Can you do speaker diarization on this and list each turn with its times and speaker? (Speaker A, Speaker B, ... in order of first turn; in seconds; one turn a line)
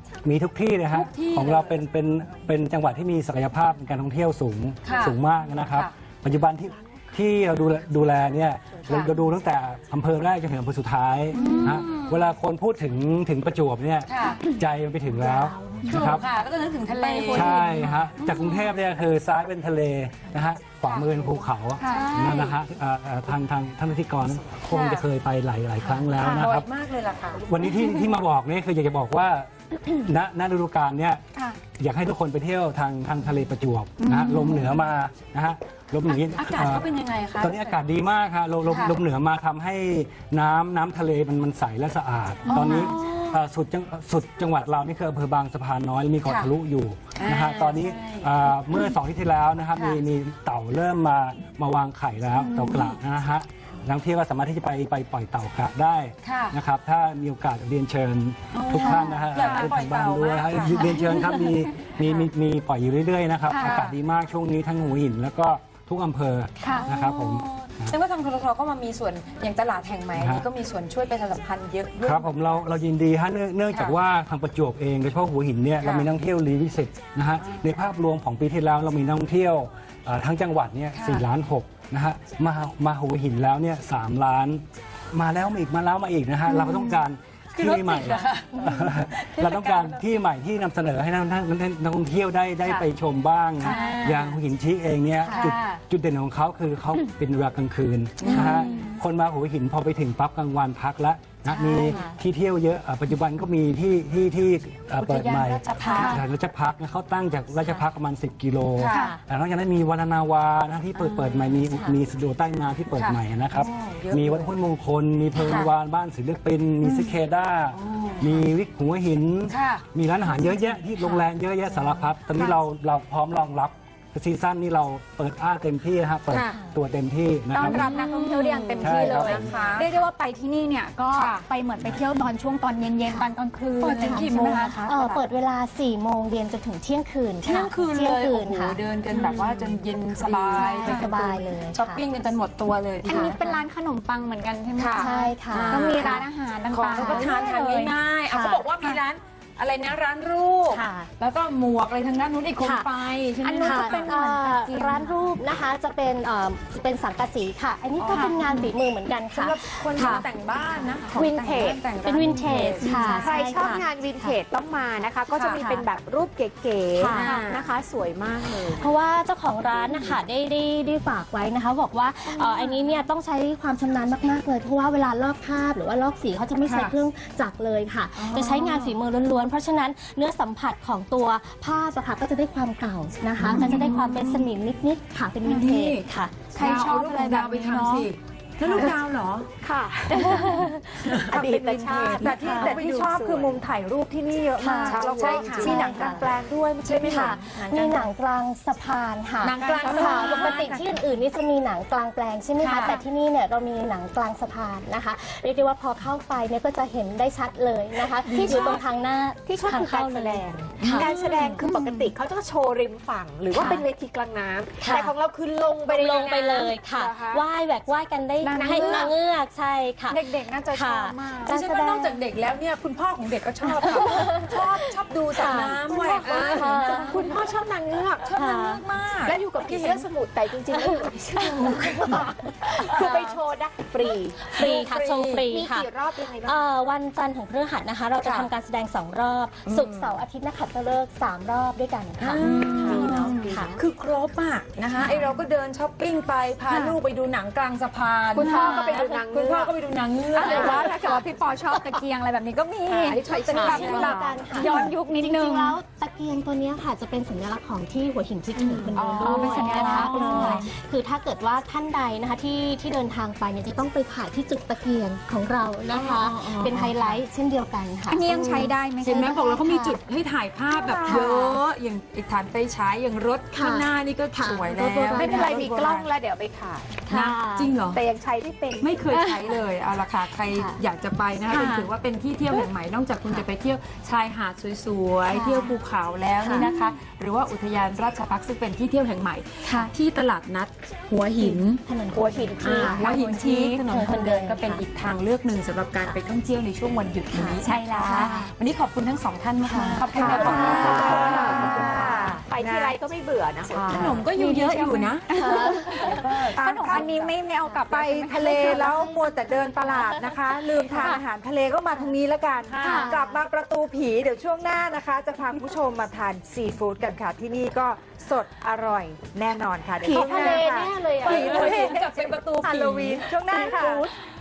Speaker A: 0.2-16.2
Speaker B: 0.9-1.8
Speaker B: 4.8-5.9
Speaker C: 11.3-11.9
Speaker B: 11.3-12.3
Speaker B: 14.0-14.4
Speaker B: 15.3-18.7
Speaker C: 16.9-17.9
Speaker A: 17.3-26.7
Speaker C: 21.8-22.2
Speaker B: 21.8-22.6
Speaker B: 24.7-25.1
Speaker B: 25.8-27.9
Speaker C: 26.2-26.5
Speaker A: 27.3-31.2
Speaker A: 31.8-67.9
Speaker C: 34.0-34.5
Speaker B: 36.2-37.8
Speaker B: 38.6-39.0
Speaker C: 42.5-43.3
Speaker B: 42.5-43.3
Speaker B: 46.2-46.5
Speaker B: 47.1-48.9
Speaker B: 49.7-50.0
Speaker B: 52.4-52.9
Speaker B: 56.2-56.6
Speaker B: 58.5-61.3
Speaker C: 58.8-59.7
Speaker C: 60.8-61.4
Speaker C: 63.5-63.8
Speaker B: 63.5-64.0
Speaker C: 66.6-66.9
Speaker B: 66.7-72.3
Speaker A: 70.2-70.5
Speaker A: 72.0-128.0
Speaker B: 73.7-74.0
Speaker B: 75.8-76.1
Speaker B: 80.9-81.2
Speaker B: 86.5-87.0
Speaker B: 87.5-90.0
Speaker B: 93.6-94.4
Speaker C: 93.6-94.0
Speaker D: 95.2-95.5
Speaker B: 95.2-95.8
Speaker B: 98.2-98.9
Speaker D: 101.5-102.2
Speaker B: 101.7-102.0
Speaker B: 105.0-106.2
Speaker D: 105.8-106.2
Speaker C: 105.9-106.2
Speaker B: 108.8-109.1
Speaker D: 108.9-109.2
Speaker D: 111.7-112.0
Speaker B: 112.9-114.5
Speaker B: 115.4-115.7
Speaker B: 117.7-118.5
Speaker B: 119.5-119.8
Speaker B: 126.3-126.6
Speaker C: 127.5-134.8
Speaker B: 127.6-129.9
Speaker A: 128.8-129.5
Speaker B: 131.1-131.4
Speaker B: 133.8-135.3
Speaker D: 134.0-142.0
Speaker B: 137.4-143.3
Speaker C: 140.5-141.1
Speaker D: 143.0-143.6
Speaker C: 143.0-147.9
Speaker B: 144.8-154.1
Speaker D: 145.0-146.2
Speaker D: 146.9-147.3
Speaker D: 148.3-148.6
Speaker D: 150.7-151.1
Speaker D: 152.6-152.9
Speaker C: 153.4-155.2
Speaker D: 153.6-160.2
Speaker B: 158.0-158.7
Speaker C: 158.1-158.5
Speaker B: 159.3-163.3
Speaker E: 161.1-161.9
Speaker D: 161.9-164.4
Speaker C: 162.9-163.2
Speaker E: 163.2-168.8
Speaker B: 165.3-165.7
Speaker D: 167.0-167.3
Speaker B: 167.0-167.3
Speaker C: 167.2-167.6
Speaker D: 168.4-186.3
Speaker B: 172.3-172.8
Speaker B: 176.6-176.9
Speaker B: 178.2-178.9
Speaker B: 183.4-184.3
Speaker C: 183.5-184.1
Speaker B: 185.4-189.5
Speaker C: 186.5-188.1
Speaker D: 188.7-188.9
Speaker E: 189.6-190.5
Speaker D: 190.1-191.2
Speaker B: 191.0-193.9
Speaker E: 191.1-193.7
Speaker D: 192.1-192.8
Speaker F: 192.9-197.3
Speaker C: 194.6-195.0
Speaker D: 194.6-196.3
Speaker B: 194.8-198.1
Speaker E: 194.8-196.1
Speaker D: 197.0-212.1
Speaker C: 197.0-197.4
Speaker B: 199.4-200.8
Speaker C: 199.9-200.8
Speaker B: 202.6-203.0
Speaker C: 202.7-203.0
Speaker B: 208.2-208.8
Speaker E: 209.4-217.4
Speaker B: 210.8-211.6
Speaker D: 213.5-213.8
Speaker D: 214.8-215.1
Speaker D: 215.9-222.2
Speaker C: 218.4-219.1
Speaker E: 218.5-219.1
Speaker C: 220.1-221.5
Speaker B: 221.4-227.3
Speaker D: 223.6-227.5
Speaker E: 225.7-228.3
Speaker B: 228.2-230.1
Speaker D: 228.3-228.8
Speaker E: 229.2-236.7
Speaker D: 230.7-233.2
Speaker B: 231.3-232.2
Speaker B: 232.9-233.3
Speaker D: 234.4-243.7
Speaker B: 234.5-235.4
Speaker B: 238.2-238.5
Speaker B: 239.7-240.2
Speaker B: 242.2-251.2
Speaker C: 242.4-243.3
Speaker E: 242.4-243.8
Speaker D: 245.0-245.3
Speaker C: 246.7-247.0
Speaker E: 248.3-249.7
Speaker C: 248.4-249.2
Speaker C: 250.3-255.8
Speaker E: 250.4-251.2
Speaker D: 250.5-251.1
Speaker B: 252.9-254.9
Speaker E: 253.0-254.9
Speaker D: 253.4-270.0
Speaker B: 258.9-260.6
Speaker C: 259.2-260.7
Speaker B: 265.9-267.2
Speaker C: 268.1-269.3
Speaker B: 269.0-276.1
Speaker E: 270.8-271.3
Speaker D: 271.0-271.6
Speaker D: 273.5-275.7
Speaker E: 274.7-277.0
Speaker D: 277.1-277.7
Speaker B: 277.1-278.0
Speaker E: 277.7-279.3
Speaker B: 278.8-291.8
Speaker D: 280.5-280.8
Speaker C: 281.5-281.9
Speaker D: 285.2-285.8
Speaker D: 286.4-286.7
Speaker C: 289.6-289.9
Speaker D: 291.4-293.1
Speaker E: 292.1-293.1
Speaker B: 292.6-303.0
Speaker C: 293.0-293.8
Speaker D: 293.9-294.8
Speaker D: 297.3-297.6
Speaker C: 297.6-298.5
Speaker D: 299.6-302.2
Speaker E: 300.1-304.2
Speaker C: 300.2-301.9
Speaker F: 303.8-304.1
Speaker B: 303.8-307.3
Speaker C: 304.2-308.8
Speaker B: 307.9-311.2
Speaker D: 308.4-310.3
Speaker F: 308.7-322.0
Speaker B: 311.8-313.1
Speaker E: 312.7-313.0
Speaker C: 312.8-313.1
Speaker D: 312.8-313.4
Speaker E: 320.0-320.4
Speaker D: 320.1-321.9
Speaker B: 320.1-324.0
Speaker F: 322.6-324.1
Speaker E: 323.5-323.9